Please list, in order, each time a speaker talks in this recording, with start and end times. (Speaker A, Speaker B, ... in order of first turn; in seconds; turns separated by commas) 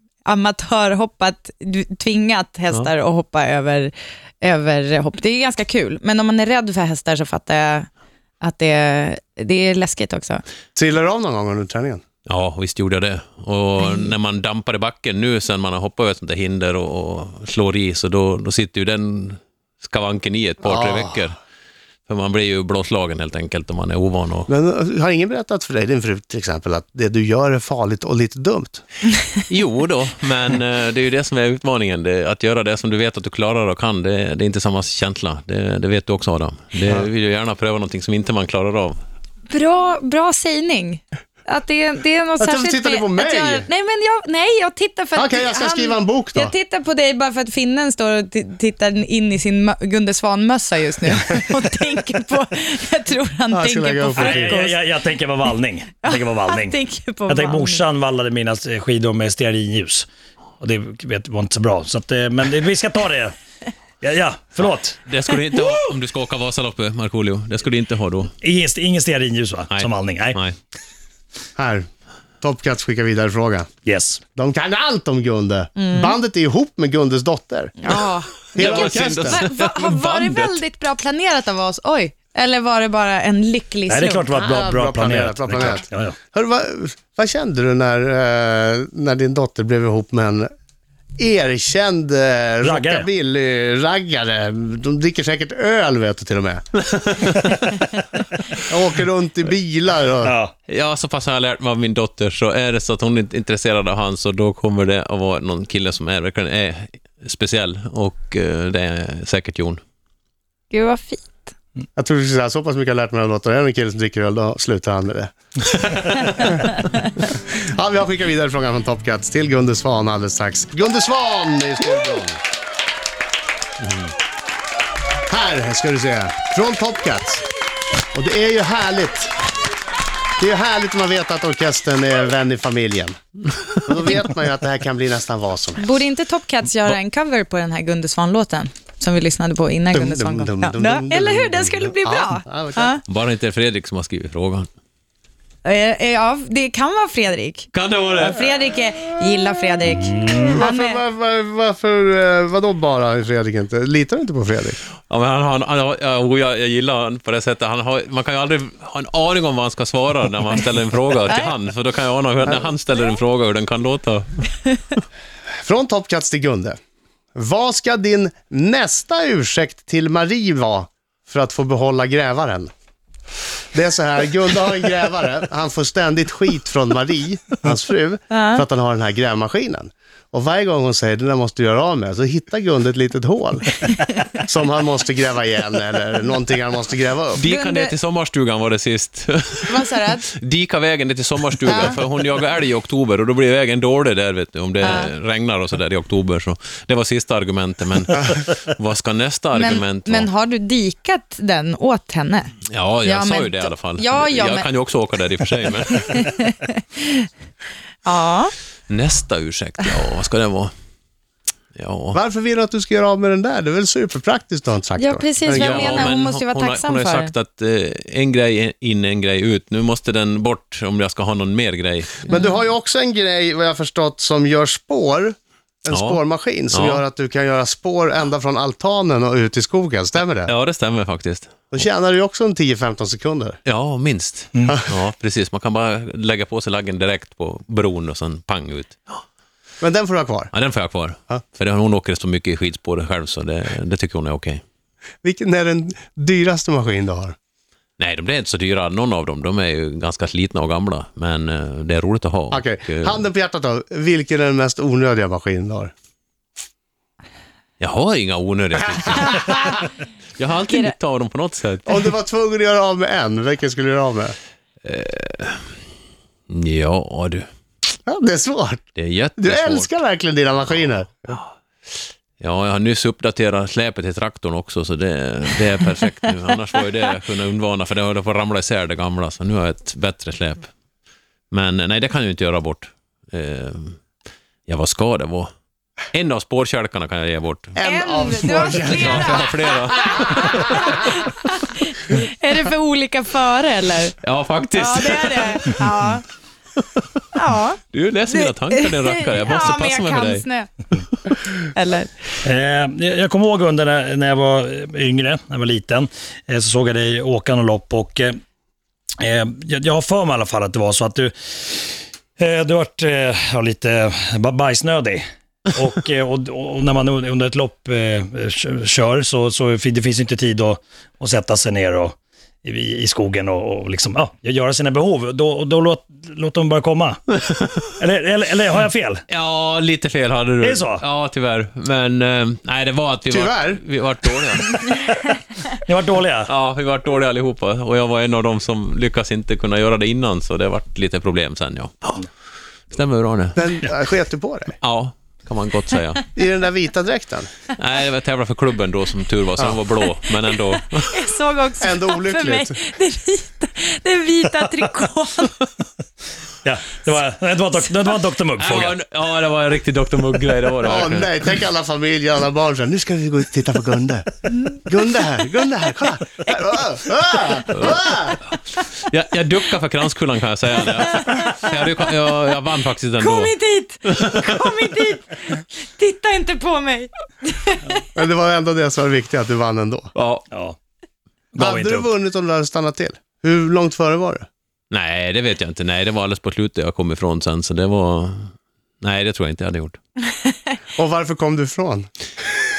Speaker A: 0.2-7.9, Speaker A: 8.4-10.4, Speaker B: 10.8-12.0, Speaker C: 12.3-21.4, Speaker B: 20.6-21.1, Speaker C: 22.1-24.5, Speaker B: 24.5-28.8, Speaker C: 29.5-39.0, Speaker A: 39.5-54.8, Speaker B: 42.4-43.7, Speaker B: 45.2-46.5, Speaker B: 53.5-54.6, Speaker D: 54.2-56.8, Speaker A: 56.0-57.9, Speaker D: 57.3-60.1, Speaker D: 60.6-63.4, Speaker D: 64.0-65.0, Speaker C: 65.1-68.3, Speaker D: 68.4-70.4, Speaker C: 69.7-70.6, Speaker B: 71.6-71.9, Speaker B: 72.4-73.7, Speaker D: 73.9-74.2, Speaker B: 74.3-77.8, Speaker A: 75.8-76.2, Speaker A: 77.8-84.3, Speaker B: 78.5-79.4, Speaker C: 78.5-80.6, Speaker D: 83.9-86.2, Speaker B: 84.3-90.5, Speaker B: 91.2-96.6, Speaker D: 92.6-93.1, Speaker C: 96.8-97.8, Speaker B: 98.7-100.3, Speaker D: 100.2-100.5, Speaker C: 100.7-109.8, Speaker A: 110.7-111.4, Speaker B: 112.0-115.3, Speaker B: 117.2-122.4, Speaker C: 123.8-124.1, Speaker B: 125.3-127.4, Speaker B: 128.1-129.3, Speaker B: 130.4-133.2, Speaker B: 133.8-135.8, Speaker A: 135.8-143.0, Speaker B: 139.9-143.0, Speaker C: 143.1-144.7, Speaker A: 145.6-151.0, Speaker C: 147.7-148.5, Speaker B: 150.4-154.8, Speaker C: 155.1-164.5, Speaker B: 165.6-166.8, Speaker B: 167.3-172.7, Speaker B: 173.7-183.8, Speaker A: 178.3-178.6, Speaker B: 184.3-187.4, Speaker C: 187.4-200.3, Speaker A: 187.4-187.9, Speaker A: 189.7-190.3, Speaker A: 191.7-192.0, Speaker A: 194.8-195.1, Speaker A: 199.5-204.7, Speaker C: 202.7-206.3, Speaker A: 205.9-207.3, Speaker A: 208.1-208.5, Speaker C: 208.9-210.7, Speaker C: 211.8-212.2, Speaker B: 212.1-216.1, Speaker A: 215.0-217.3, Speaker C: 215.5-222.3, Speaker A: 222.3-222.5, Speaker B: 222.3-230.5, Speaker C: 225.9-226.2, Speaker C: 226.7-227.0, Speaker C: 230.5-231.7, Speaker B: 231.7-233.6, Speaker C: 233.7-239.2, Speaker B: 239.8-240.5, Speaker C: 240.5-244.6, Speaker B: 245.2-247.4, Speaker C: 248.0-253.2, Speaker B: 252.5-255.9, Speaker C: 257.8-259.9, Speaker C: 260.4-262.0, Speaker B: 261.9-264.4, Speaker C: 264.8-265.7, Speaker C: 266.5-267.5, Speaker B: 268.1-268.9, Speaker C: 269.0-269.9, Speaker B: 269.4-271.4, Speaker C: 272.4-280.7, Speaker C: 281.5-284.0, Speaker C: 284.7-285.5, Speaker C: 286.1-287.8, Speaker B: 287.8-289.5, Speaker A: 287.8-294.2, Speaker C: 288.8-291.0, Speaker C: 294.2-295.8, Speaker A: 294.7-296.2, Speaker A: 297.4-300.7, Speaker C: 297.9-300.4, Speaker A: 301.8-302.1, Speaker D: 302.4-308.4, Speaker D: 309.2-327.2, Speaker C: 327.5-327.9, Speaker D: 328.0-329.2, Speaker C: 329.3-334.9, Speaker D: 330.6-331.0, Speaker B: 333.3-333.8, Speaker D: 335.9-336.5, Speaker C: 336.5-342.2, Speaker C: 342.9-343.6, Speaker B: 343.6-344.8, Speaker C: 344.8-346.3, Speaker B: 346.4-347.5, Speaker C: 347.8-351.2, Speaker A: 350.9-355.6, Speaker B: 351.8-352.8, Speaker D: 356.6-358.9, Speaker C: 358.6-361.5, Speaker B: 360.8-368.4, Speaker C: 367.7-368.0, Speaker C: 369.1-374.6, Speaker A: 371.1-371.8, Speaker A: 373.2-378.0, Speaker B: 378.1-380.1, Speaker C: 380.2-380.5, Speaker D: 380.5-380.8, Speaker D: 381.5-382.1, Speaker B: 381.6-384.5, Speaker C: 384.9-390.0, Speaker B: 391.0-392.1